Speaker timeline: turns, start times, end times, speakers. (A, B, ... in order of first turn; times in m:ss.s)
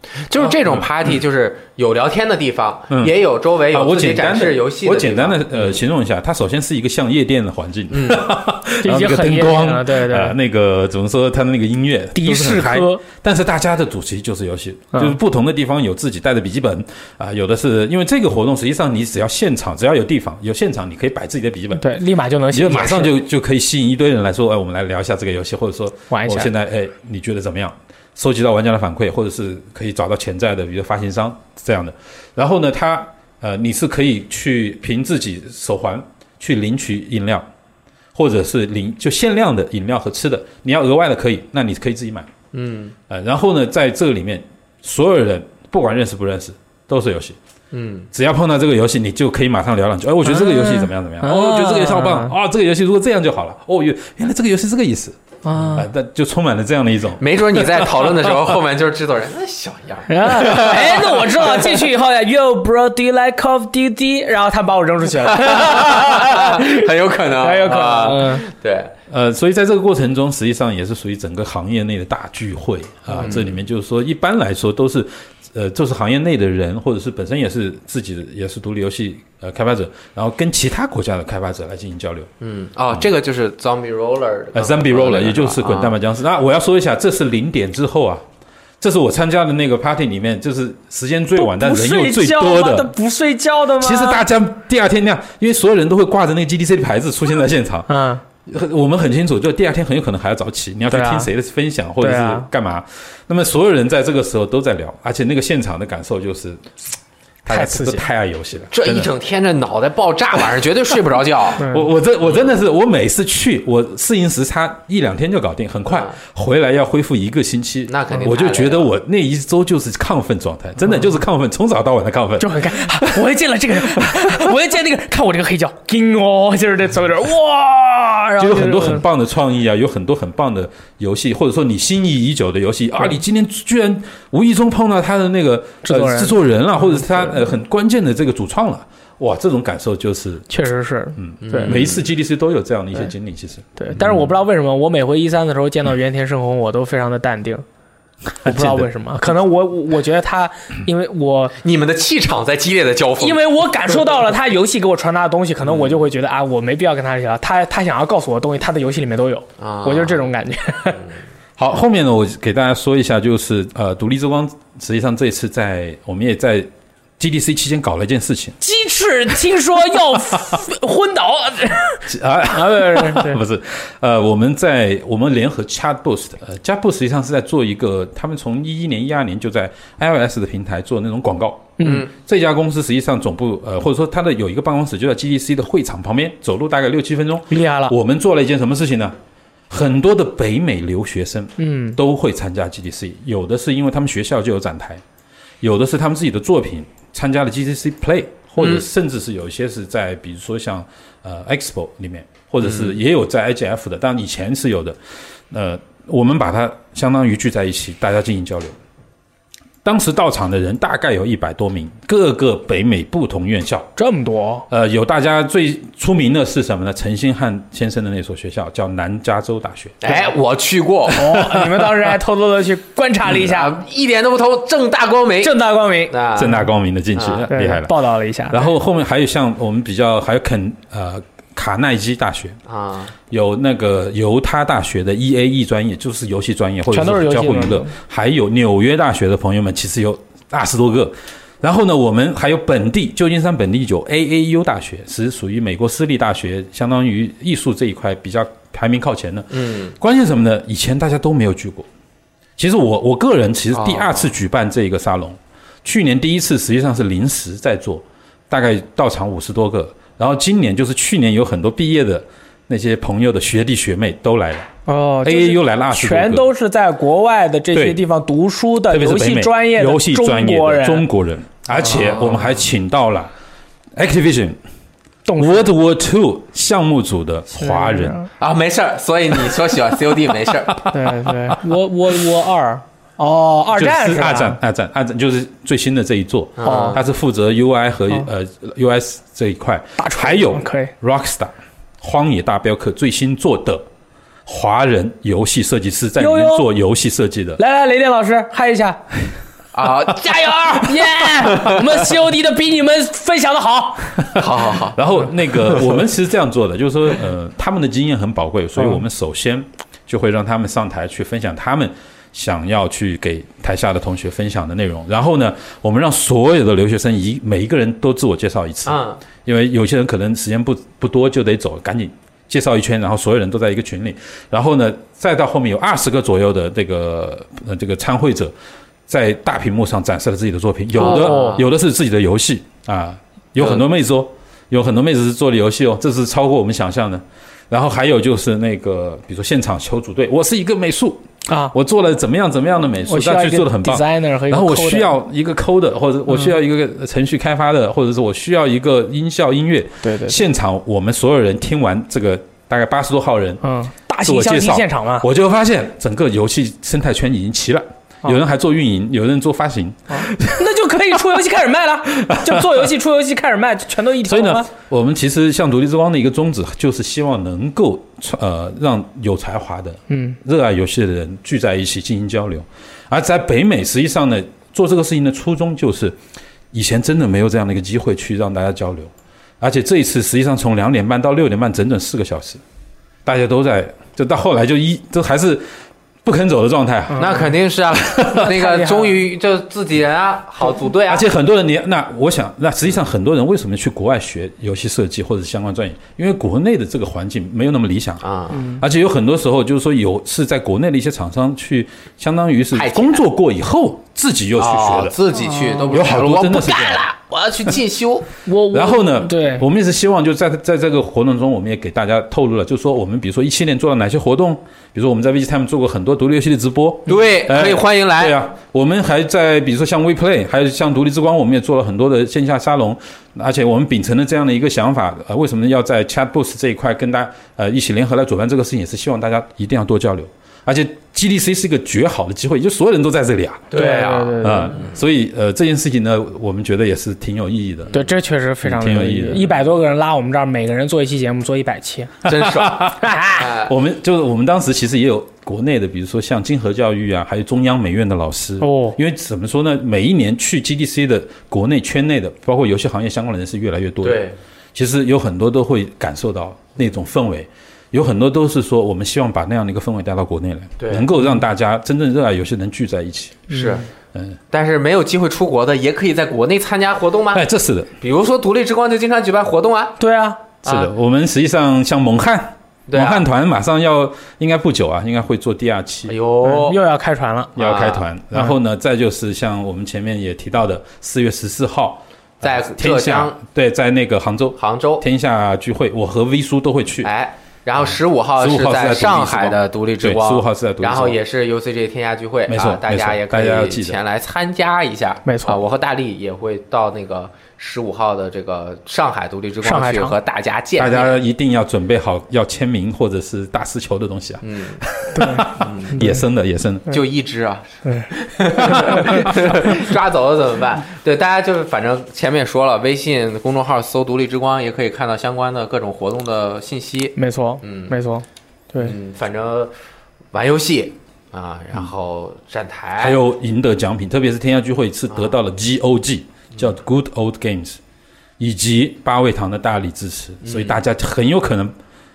0:00.2-0:05.8 A
0:00.4-0:00.8 B
0:02.9-0:21.9 B
0:07.9-0:08.2 A
0:08.8-0:10.3 C
0:12.1-0:13.0 C
0:21.7-0:23.1 C
0:22.5-0:37.5 B
0:26.1-0:26.5 C
0:38.1-0:42.3 B
0:42.5-0:42.9 A
0:43.1-0:47.4 B
0:47.7-0:48.1 A
0:48.1-0:55.2 B
0:50.3-0:52.3 C
0:55.4-0:55.9 C
0:55.7-0:58.5 B
0:57.2-1:01.8 A
1:00.1-1:08.4 C
1:05.2-1:08.9 A
1:09.1-1:22.3 B
1:13.1-1:13.5 A
1:22.4-1:26.0 A
1:24.5-1:28.2 B
1:28.8-1:32.9 B
1:31.4-1:34.2 C
1:33.8-1:37.9 B
1:37.9-1:38.2 C
1:38.4-1:46.8 B
1:40.9-1:41.3 C
1:42.0-1:42.5 C
1:47.4-1:49.1 B
1:47.5-1:48.0 C
1:48.7-1:51.6 A
1:51.6-1:51.9 C
1:51.6-2:03.2 B
1:52.2-1:52.5 A
1:55.9-1:56.2 A
1:57.9-1:58.9 A
2:02.4-2:09.0 C
2:03.9-2:04.4 B
2:08.4-2:20.5 B
2:15.8-2:17.4 C
2:20.5-2:21.8 C
2:21.2-2:24.2 B
2:21.4-2:22.0 A
2:23.8-2:27.6 C
2:28.4-2:28.9 B
2:28.4-2:31.6 C
2:31.6-2:33.4 A
2:33.2-2:41.0 C
2:35.7-2:35.9 A
2:39.6-2:40.2 A
2:41.6-2:48.6 B
2:48.6-2:53.4 C
2:52.1-3:09.1 B
3:01.8-3:02.1 C
3:01.8-3:02.1 A
3:07.5-3:07.9 C
3:09.7-3:15.0 B
3:11.6-3:12.0 C
3:15.6-3:25.0 B
3:18.6-3:18.8 A
3:22.6-3:23.0 A
3:25.5-3:28.8 B
3:29.8-3:33.9 B
3:34.0-3:34.6 C
3:34.7-3:40.0 B
3:40.0-3:41.3 A
3:41.1-3:43.8 C
3:41.2-3:42.2 B
3:43.3-3:45.6 A
3:45.4-3:46.1 C
3:46.1-3:47.4 A
3:46.4-3:48.0 B
3:47.5-3:48.7 C
3:48.5-3:52.6 B
3:52.6-3:53.1 A
3:53.3-4:11.9 B
3:56.9-3:57.9 C
4:09.5-4:09.9 A
4:12.6-4:24.7 B
4:13.7-4:14.3 A
4:24.9-4:31.1 C
4:25.2-4:26.5 B
4:27.7-4:28.0 B
4:28.9-4:33.3 B
4:31.8-4:32.6 A
4:33.9-4:34.6 B
4:35.2-4:35.7 C
4:35.4-4:38.2 B
4:37.6-4:38.3 C
4:38.4-4:40.9 A
4:40.9-4:41.6 B
4:40.9-4:44.6 C
4:43.7-4:53.8 B
4:46.6-4:47.0 A
4:46.6-4:47.0 C
4:50.0-4:50.9 C
4:54.4-4:57.6 B
4:56.2-4:56.6 C
4:57.6-4:59.0 C
4:59.7-5:01.8 A
5:00.5-5:04.3 C
5:04.3-5:28.5 B
5:04.4-5:05.0 A
5:18.8-5:19.2 A
5:29.1-5:53.6 B
5:31.0-5:31.6 A
5:31.0-5:31.6 C
5:41.5-5:41.7 C
5:43.1-5:45.1 C
5:50.0-5:50.4 C
5:53.6-5:55.3 C
5:54.2-6:00.6 B
6:00.1-6:04.7 C
6:02.2-6:02.9 B
6:04.2-6:16.2 B
6:10.1-6:10.4 C
6:16.7-6:22.6 B
6:23.2-6:25.6 B
6:26.2-6:27.3 B
6:27.1-6:27.5 C
6:27.2-6:31.3 A
6:28.0-6:28.3 B
6:28.4-6:29.2 C
6:31.0-6:45.2 B
6:38.2-6:38.7 A
6:38.5-6:38.8 C
6:42.7-6:43.2 A
6:44.6-6:48.3 A
6:45.4-6:45.9 C
6:45.9-6:47.0 B
6:48.4-6:49.6 C
6:48.7-7:13.7 B
6:57.1-6:58.4 A
7:13.7-7:14.9 A
7:13.7-7:14.7 C
7:14.4-7:18.0 B
7:17.9-7:22.2 C
7:18.6-7:19.6 B
7:22.2-7:23.7 A
7:22.3-7:23.0 B
7:23.0-7:23.4 C
7:23.6-7:43.4 B
7:28.6-7:29.0 C
7:34.0-7:34.4 A
7:40.8-7:41.1 A
7:43.5-7:43.9 A
7:44.5-7:47.4 A
7:47.3-7:47.9 B
7:48.0-7:50.0 A
7:50.0-7:50.4 C
7:50.6-7:50.9 A
7:50.6-7:56.1 B
7:52.9-7:53.2 A
7:56.1-7:56.8 A
7:56.4-7:57.5 C
7:57.6-8:07.1 B
7:57.6-7:58.0 A
8:02.4-8:03.4 A
8:04.6-8:05.0 A
8:07.0-8:21.2 A
8:08.4-8:11.2 B
8:12.5-8:14.0 B
8:15.2-8:15.6 C
8:19.6-8:20.1 C
8:20.8-8:26.9 B
8:24.4-8:24.8 A
8:25.1-8:26.2 C
8:25.5-8:26.0 A
8:26.9-8:37.9 A
8:27.8-8:28.1 C
8:28.6-8:29.2 C
8:37.2-8:38.9 C
8:38.8-8:39.7 A
8:40.3-8:43.2 A
8:43.0-8:47.8 B
8:48.4-8:51.7 B
8:50.4-8:50.8 A